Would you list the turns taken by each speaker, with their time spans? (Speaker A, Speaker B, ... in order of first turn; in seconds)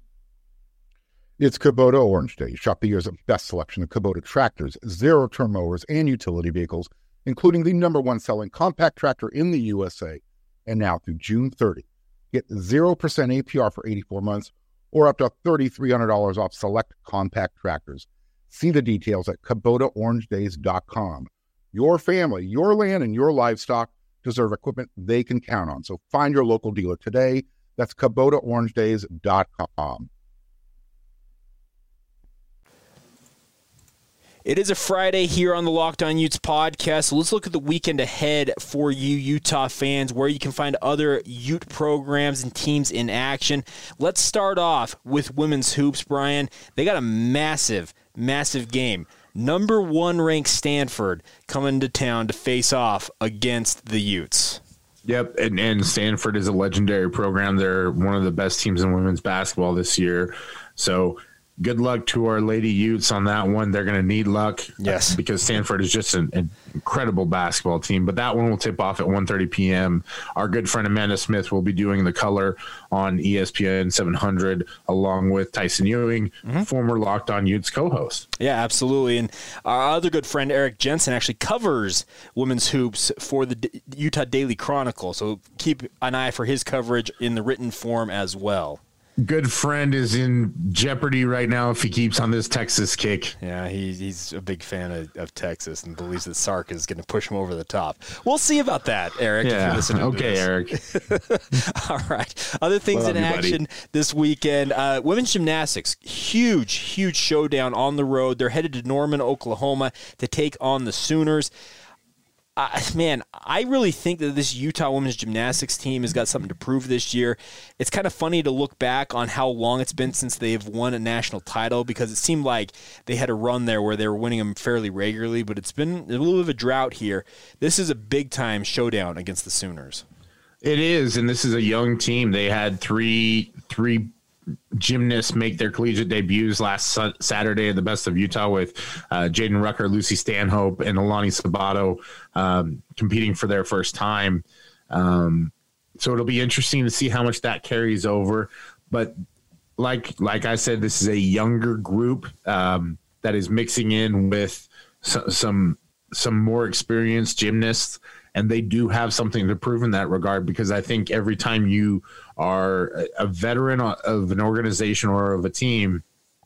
Speaker A: 1.4-30.1
Speaker B: 34.5-54.6, 64.8-65.2, 78.4-88.8, 93.4-111.5, 112.6-130.0
Speaker C: 55.1-78.3, 89.2-93.3, 99.4-100.8, 102.9-103.6, 130.6-134.1, 134.8-149.2, 149.8-166.0